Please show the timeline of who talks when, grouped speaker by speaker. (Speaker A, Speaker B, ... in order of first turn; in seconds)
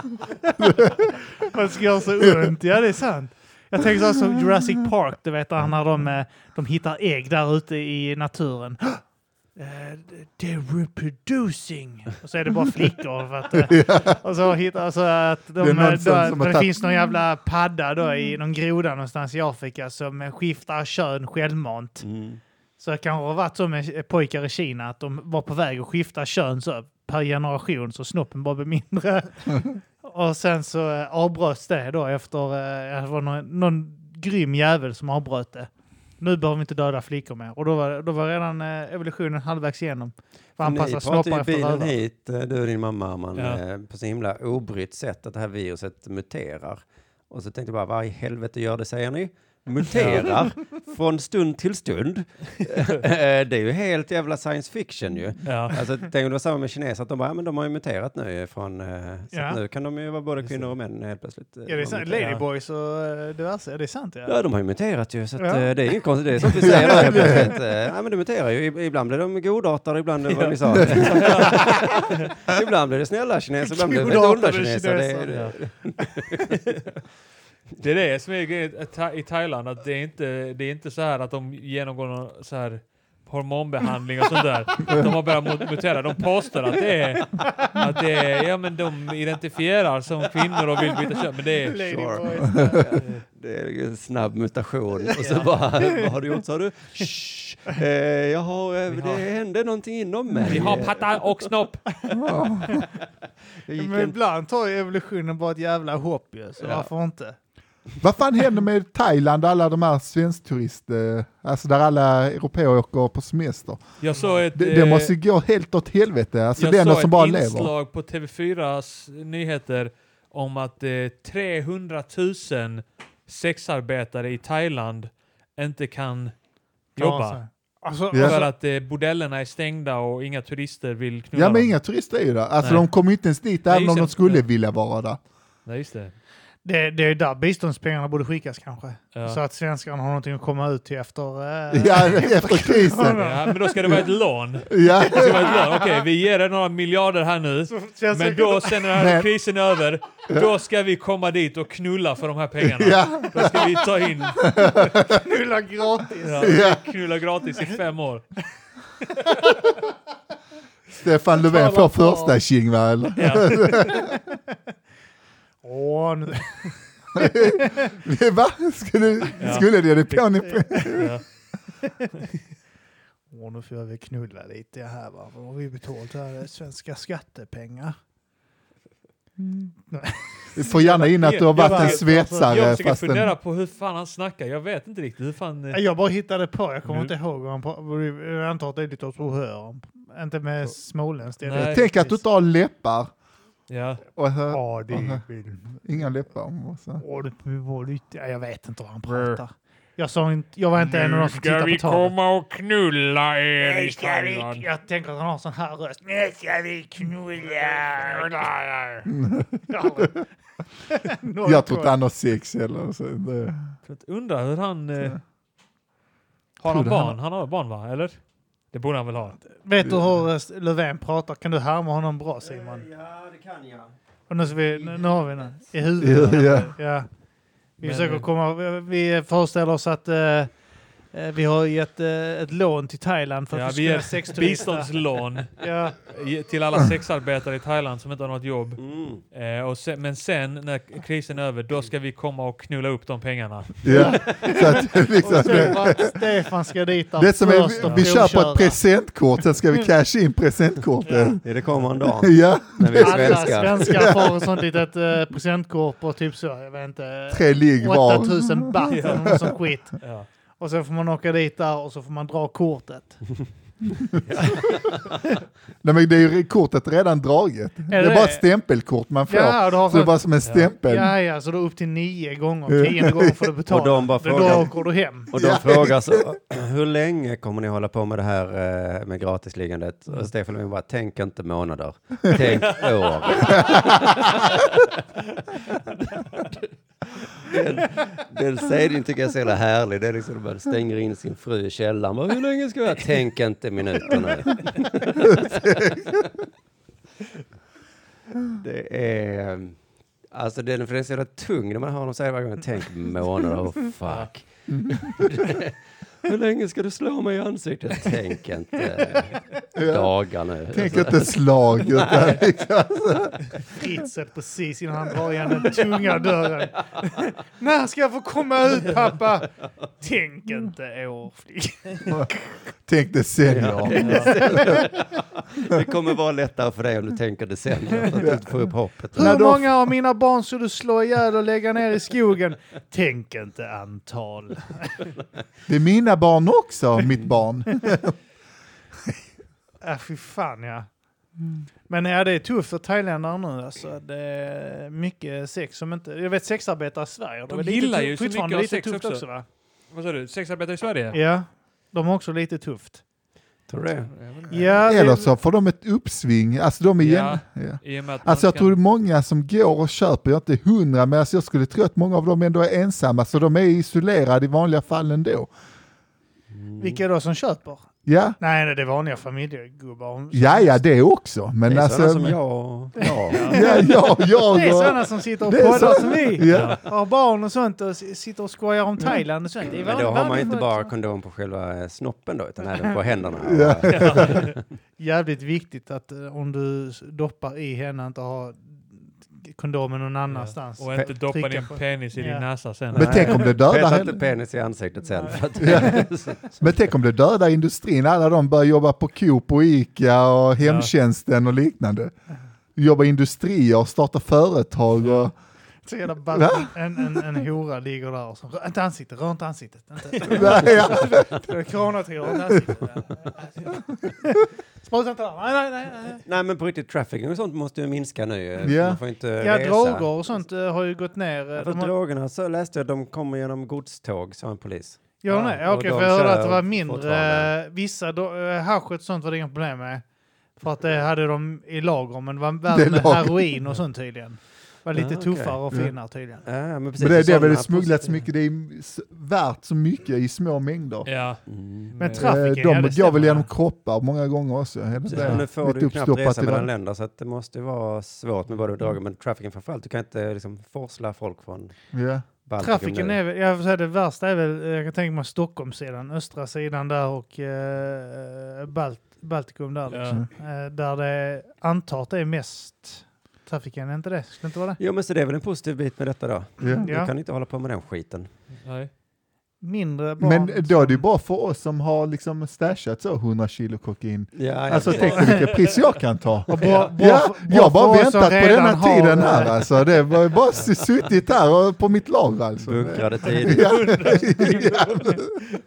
Speaker A: 0.6-1.1, 2.2-2.5, 13.5-14.2, 15.6-16.7, 66.6-67.5, 102.2-102.8, 108.0-113.9, 114.5-117.7, 128.1-128.4, 131.3-135.2, 141.7-143.2, 144.7-145.7, 148.9-149.3, 152.6-153.7, 154.4-155.2, 156.4-156.8, 160.9-164.2, 167.2-171.1, 180.6-183.3, 191.6-193.1, 194.2-195.2, 195.8-197.0, 209.1-210.1, 211.4-213.7, 216.7-217.2, 226.0-226.7, 243.8-246.2, 247.2-251.4, 252.2-254.4, 257.3-259.4, 265.8-271.1, 272.7-273.5, 275.3-276.2, 295.4-296.2, 304.7-305.3, 309.8-310.1, 310.7-313.8, 322.1-322.3, 322.9-324.8, 328.2-328.5, 329.1-329.8, 335.7-338.2, 354.9-365.5, 368.1-368.4, 370.3-372.4, 373.5-376.8, 383.4-384.4, 392.9-394.2, 395.6-402.1, 402.8-405.3, 406.3-407.2, 410.3-411.4, 418.6-419.0, 432.7-433.4, 437.0-441.1, 442.1-446.7, 451.9-452.2, 466.6-466.9, 470.2-485.4
Speaker B: 1.4-9.0, 9.6-22.1, 22.8-42.0, 59.3-59.6, 61.7-64.4, 65.4-65.7, 73.7-75.5, 91.6-93.0, 103.8-107.4, 114.1-114.5, 127.0-128.5, 136.7-143.5, 147.7-148.9, 154.9-156.7, 159.1-159.9, 161.3-162.4, 163.8-164.4, 165.6-167.9, 170.5-171.0, 173.3-178.0, 179.9-182.6, 185.7-192.2, 194.5-195.7, 197.0-202.1, 203.6-209.1, 209.7-210.3, 210.9-211.9, 219.5-222.9, 224.3-227.1, 227.8-230.5, 231.1-234.9, 235.6-236.0, 243.9-248.8, 251.1-251.4, 253.0-260.1, 260.6-263.2, 267.9-268.5, 269.3-275.3, 313.7-322.5, 324.1-324.9, 329.2-335.0, 339.8-340.9, 341.9-349.4, 351.1-353.0, 354.5-355.3, 366.8-367.9, 368.4-370.8, 373.0-380.9, 385.0-392.4, 395.1-396.1, 405.8-416.2, 419.4-421.9, 425.2-430.1, 430.6-436.4, 442.0-443.5, 452.6-464.8, 466.8-467.1, 469.6-471.1, 475.0-475.4, 476.5-479.6
Speaker C: 22.0-22.4, 40.6-62.2, 64.3-76.6, 91.8-101.5, 103.7-104.2, 106.6-106.9, 222.4-223.9, 224.7-225.2, 238.8-239.2, 251.4-254.1, 264.2-265.2, 273.7-284.9, 287.4-296.2, 298.6-299.8, 300.3-312.4, 323.4-329.4, 353.7-354.1, 366.5-367.0, 371.7-373.6, 379.8-384.6, 392.9-396.8, 410.7-411.4, 416.3-420.1, 421.6-427.5, 434.9-435.6, 436.4-438.2, 441.5-441.9, 445.1-451.8, 452.4-453.2, 464.8-468.3, 474.3-475.5, 482.6-484.0
Speaker D: 43.4-43.6, 49.9-50.4, 55.5-55.8, 60.4-60.7, 62.2-62.4, 70.2-72.1, 75.3-75.5, 77.8-91.8, 93.0-93.2, 95.2-95.5, 98.9-99.2, 100.5-102.0, 114.0-115.1, 116.6-126.3, 127.0-127.4, 128.1-131.8, 132.6-132.9, 133.7-134.4, 135.7-136.2, 143.2-154.6, 156.2-158.3, 163.2-163.9, 169.4-170.2, 170.8-171.2, 181.2-185.8, 186.9-187.1, 191.4-191.8, 193.7-194.0, 199.1-199.4, 200.8-204.6, 207.5-208.5, 213.8-215.2, 216.6-218.2, 218.7-219.4, 227.8-228.3, 233.5-244.4, 247.8-248.1, 251.2-251.9, 258.9-260.3, 270.4-270.7, 282.6-283.9, 323.9-324.4, 347.5-349.3, 349.9-351.2, 354.1-354.8, 357.0-358.8, 373.3-373.6, 376.5-376.8, 383.9-384.5, 390.3-393.5, 400.6-400.9, 405.0-405.3, 441.1-442.4, 445.1-445.4, 459.9-460.2, 468.6-468.9, 474.9-475.8, 476.6-476.9, 483.3-485.4